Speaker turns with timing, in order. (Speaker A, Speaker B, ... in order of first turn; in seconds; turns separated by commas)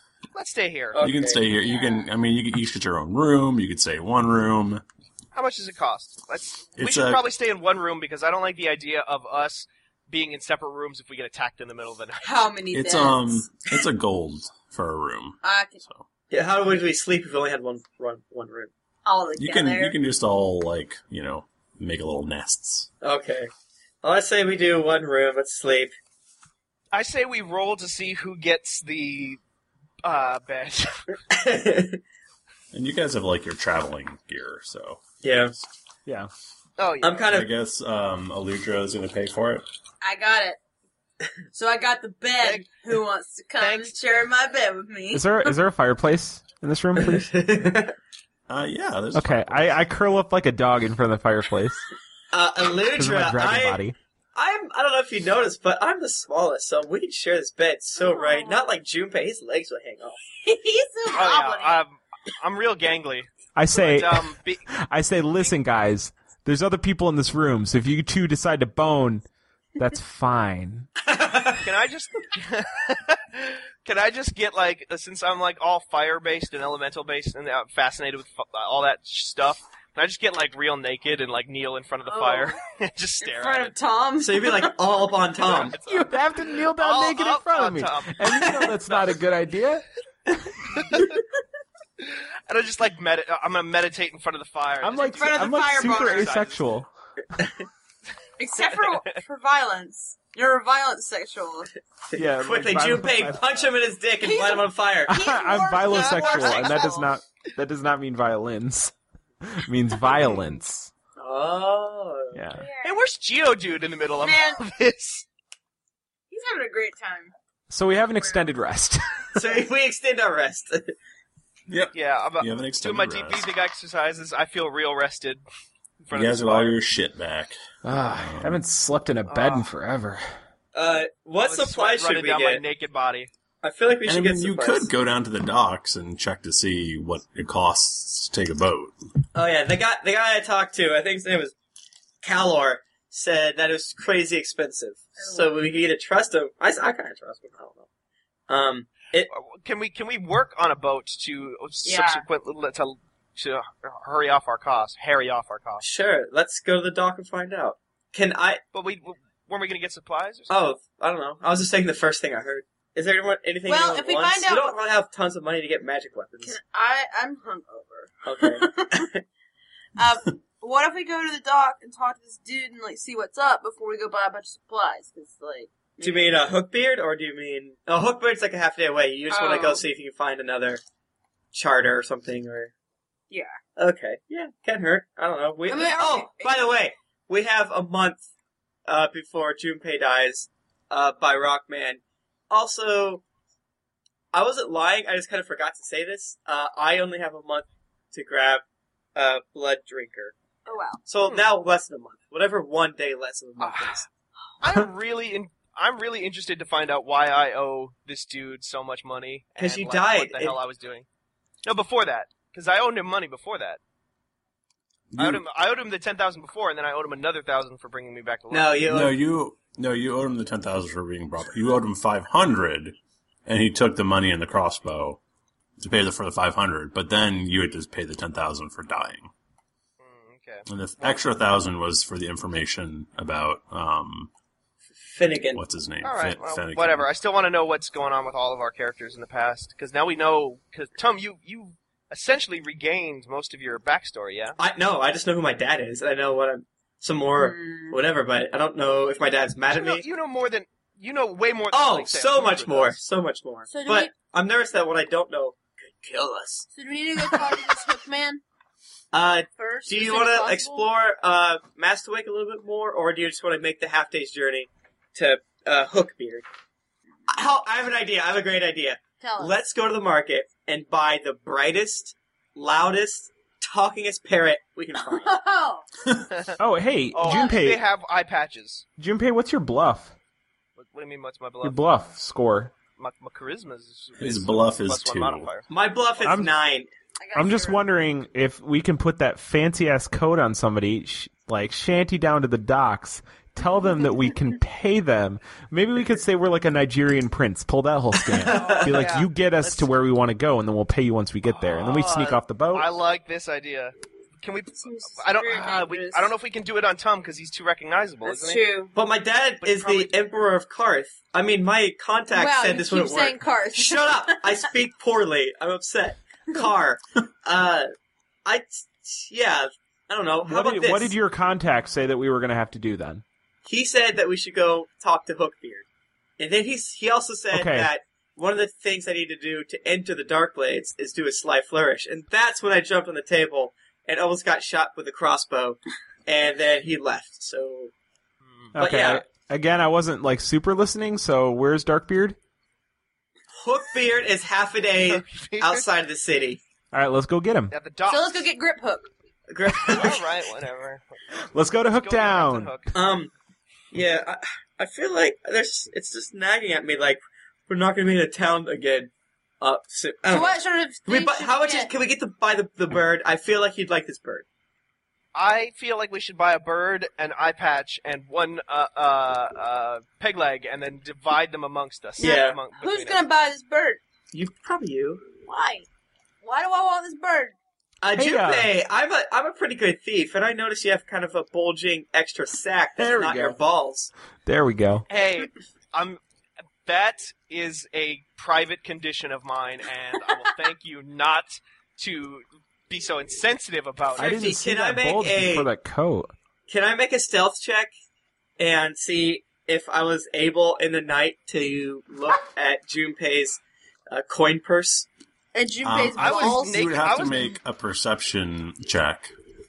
Speaker A: 0.3-1.0, Speaker B: 0.9-1.5, Speaker C: 1.0-4.8, Speaker D: 1.6-2.1, Speaker A: 5.3-12.4, Speaker C: 6.8-7.2, Speaker D: 12.2-13.5, Speaker C: 12.7-16.1, Speaker D: 15.4-15.8, Speaker B: 16.3-18.7, Speaker D: 19.1-20.0, Speaker C: 19.4-22.9, Speaker B: 23.0-23.5, Speaker B: 24.0-25.9, Speaker A: 26.9-29.4, Speaker A: 30.0-30.9, Speaker B: 31.3-32.0, Speaker C: 32.7-35.0, Speaker B: 35.2-35.5, Speaker A: 36.8-37.3, Speaker B: 37.0-37.5, Speaker C: 37.3-39.6, Speaker D: 40.0-40.6, Speaker D: 41.5-45.6, Speaker A: 42.4-42.7, Speaker A: 43.6-43.9, Speaker E: 45.1-47.3, Speaker B: 47.0-47.9, Speaker C: 48.5-49.8, Speaker E: 49.1-51.8, Speaker B: 52.3-53.8, Speaker E: 53.0-54.0, Speaker B: 54.4-60.2, Speaker D: 58.0-58.6, Speaker D: 60.4-61.8, Speaker A: 61.1-64.7, Speaker E: 63.6-69.2, Speaker E: 69.8-70.9, Speaker B: 71.1-71.6, Speaker A: 71.6-83.8, Speaker D: 82.1-82.5, Speaker D: 83.2-84.7, Speaker B: 84.2-85.8, Speaker A: 85.4-86.2, Speaker E: 85.8-89.8, Speaker A: 86.8-89.2, Speaker A: 92.0-96.6, Speaker E: 94.8-96.9, Speaker D: 95.1-96.3, Speaker D: 98.4-101.7, Speaker A: 98.6-99.2, Speaker B: 102.1-105.2, Speaker E: 102.2-103.5, Speaker D: 104.2-107.1, Speaker E: 105.1-110.9, Speaker B: 111.2-112.4, Speaker E: 112.3-112.6, Speaker D: 112.5-113.0, Speaker A: 112.8-115.2, Speaker D: 114.2-114.6, Speaker D: 116.3-117.3, Speaker E: 117.7-119.2, Speaker B: 119.4-120.9, Speaker C: 121.7-123.5, Speaker A: 121.9-125.4, Speaker A: 126.1-126.8, Speaker C: 126.1-128.6, Speaker E: 127.8-130.2, Speaker A: 129.3-129.7, Speaker B: 130.8-132.6, Speaker A: 131.4-133.3, Speaker B: 133.6-134.9, Speaker C: 134.1-138.9, Speaker B: 139.3-141.5, Speaker B: 142.2-147.8, Speaker D: 145.2-145.5, Speaker B: 148.5-149.3, Speaker A: 149.3-155.8, Speaker D: 151.8-152.2, Speaker B: 155.8-158.6, Speaker A: 158.7-160.5, Speaker B: 160.5-166.6, Speaker D: 163.7-164.8, Speaker D: 166.4-169.1, Speaker B: 168.3-169.2, Speaker D: 170.0-176.5, Speaker B: 176.0-180.8, Speaker D: 179.3-179.9, Speaker B: 181.5-182.7, Speaker D: 183.3-183.6, Speaker B: 183.8-188.2, Speaker D: 185.7-186.7, Speaker B: 188.9-193.2, Speaker B: 194.3-198.6, Speaker B: 199.2-200.3, Speaker D: 200.7-201.0, Speaker B: 201.1-204.1, Speaker A: 201.2-201.5, Speaker A: 204.6-211.1, Speaker B: 209.6-210.6, Speaker A: 211.7-213.8, Speaker C: 215.1-215.4, Speaker A: 215.2-218.8, Speaker B: 218.5-219.2, Speaker C: 218.9-222.9, Speaker C: 223.5-225.2, Speaker C: 225.8-229.3, Speaker A: 230.0-231.3, Speaker C: 230.7-234.3, Speaker B: 235.0-235.6, Speaker C: 235.6-237.1, Speaker A: 236.0-244.6, Speaker B: 244.6-250.1, Speaker D: 247.4-248.0, Speaker A: 249.7-253.0, Speaker B: 251.7-256.7, Speaker D: 253.7-254.2, Speaker D: 256.7-258.4, Speaker B: 259.1-266.4, Speaker D: 259.6-260.9, Speaker B: 267.3-275.4, Speaker D: 269.2-269.6, Speaker D: 275.0-275.9, Speaker E: 276.6-277.8, Speaker A: 277.1-278.9, Speaker D: 277.3-277.6, Speaker E: 279.0-280.1, Speaker A: 280.8-281.8, Speaker E: 281.6-282.7, Speaker A: 283.0-285.7, Speaker C: 284.2-285.5, Speaker B: 285.7-286.9, Speaker E: 286.2-286.5, Speaker D: 287.2-287.9, Speaker E: 287.3-302.9, Speaker B: 298.4-298.9, Speaker A: 298.5-299.9, Speaker A: 301.6-308.6, Speaker D: 304.8-306.3, Speaker D: 308.2-308.9, Speaker B: 308.9-317.9, Speaker A: 309.6-310.1, Speaker D: 312.3-314.7, Speaker B: 318.4-321.1, Speaker E: 320.4-323.2, Speaker B: 323.7-325.9, Speaker B: 326.4-337.9, Speaker E: 327.5-327.9, Speaker E: 338.8-342.4, Speaker B: 338.8-339.2, Speaker B: 343.6-346.6, Speaker A: 345.1-345.9, Speaker E: 346.9-347.7, Speaker A: 347.7-348.5, Speaker D: 348.1-349.1, Speaker B: 349.5-350.3, Speaker A: 349.8-351.0, Speaker E: 351.5-352.7, Speaker A: 351.9-352.9, Speaker B: 352.9-353.3, Speaker B: 353.9-359.1, Speaker B: 359.6-364.4, Speaker D: 360.3-361.9, Speaker A: 365.4-373.2, Speaker B: 372.2-372.6, Speaker D: 372.2-374.0, Speaker B: 374.3-375.2, Speaker D: 375.4-375.9, Speaker D: 376.4-377.6, Speaker B: 378.0-384.1, Speaker E: 378.2-378.7, Speaker E: 383.0-383.6, Speaker E: 384.4-385.1, Speaker A: 385.1-386.2, Speaker A: 386.9-394.4, Speaker B: 394.2-395.7, Speaker E: 394.2-396.3, Speaker B: 396.7-397.9, Speaker B: 398.6-405.1, Speaker D: 405.6-407.6, Speaker C: 405.8-409.3, Speaker A: 406.1-407.5